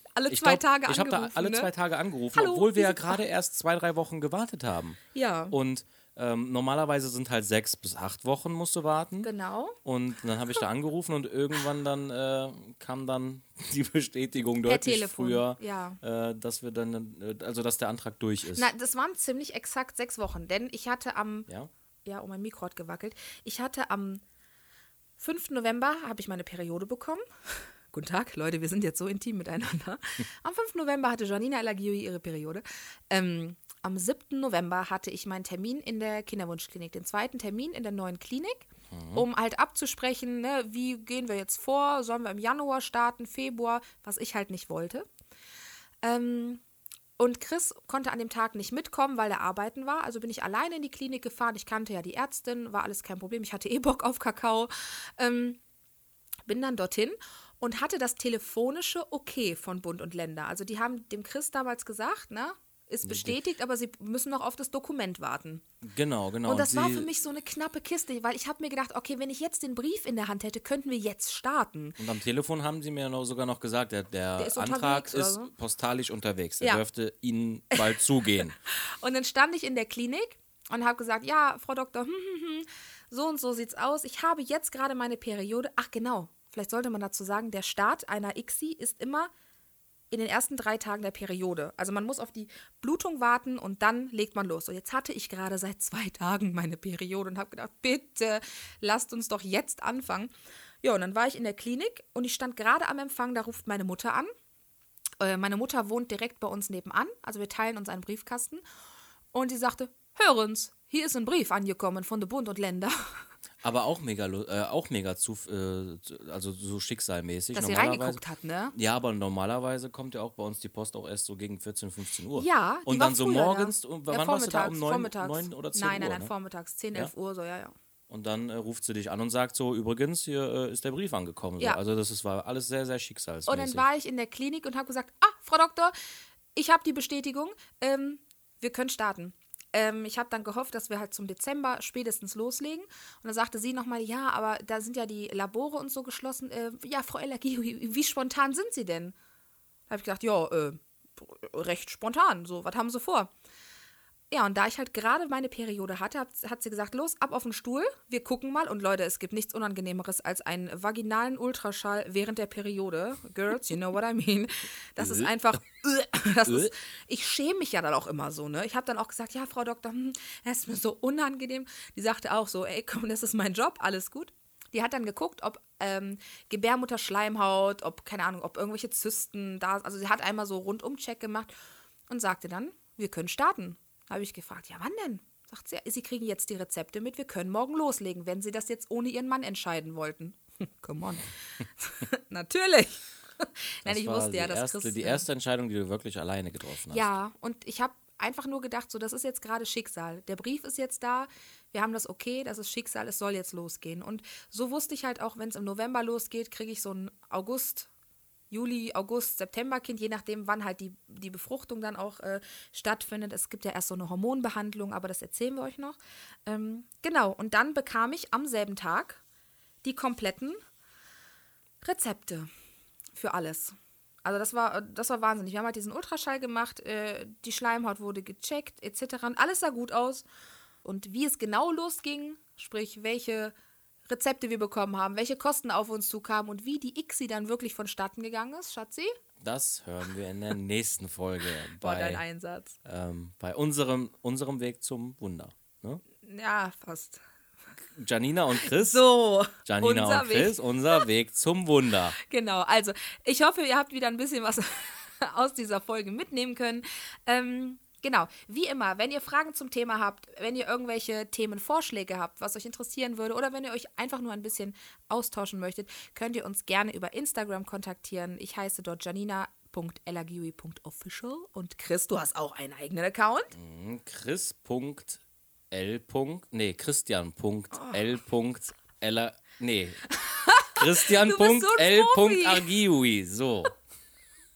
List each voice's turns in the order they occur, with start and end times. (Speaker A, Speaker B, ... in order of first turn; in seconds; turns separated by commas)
Speaker A: 0.1-1.7, Speaker B: 0.3-5.0, Speaker A: 2.3-3.2, Speaker A: 5.1-5.5, Speaker B: 5.5-9.3, Speaker A: 9.2-9.8, Speaker B: 9.8-18.7, Speaker A: 14.7-16.0, Speaker A: 18.5-21.5, Speaker A: 22.0-24.2, Speaker A: 25.2-45.1, Speaker B: 38.9-39.2, Speaker A: 46.0-46.6, Speaker A: 47.2-55.6, Speaker A: 56.5-65.6, Speaker B: 63.0-63.4, Speaker B: 65.8-67.1, Speaker A: 66.5-72.0, Speaker B: 72.0-78.5, Speaker A: 74.4-75.5, Speaker A: 77.7-78.0, Speaker A: 78.7-89.3, Speaker A: 90.1-100.3, Speaker A: 100.8-104.3, Speaker A: 105.2-108.6, Speaker A: 109.3-113.2, Speaker B: 113.6-118.2, Speaker A: 117.5-118.7, Speaker B: 118.7-126.3, Speaker A: 122.3-127.7, Speaker B: 128.1-133.8, Speaker A: 133.5-135.9, Speaker A: 136.5-149.1, Speaker A: 149.9-153.3, Speaker A: 154.3-181.5, Speaker B: 165.0-165.3, Speaker A: 182.1-195.2, Speaker B: 193.8-197.1, Speaker A: 196.9-207.9, Speaker A: 208.5-219.2, Speaker A: 219.8-220.6, Speaker A: 221.8-222.5, Speaker A: 223.1-230.2, Speaker A: 230.8-233.5, Speaker A: 234.1-239.1, Speaker B: 239.4-242.2, Speaker A: 241.8-242.8, Speaker B: 242.8-246.0, Speaker A: 246.2-247.2, Speaker B: 247.9-249.0, Speaker A: 248.5-251.0, Speaker B: 249.6-252.2, Speaker A: 252.2-273.5, Speaker B: 273.5-280.1, Speaker A: 280.1-282.7, Speaker B: 280.7-283.7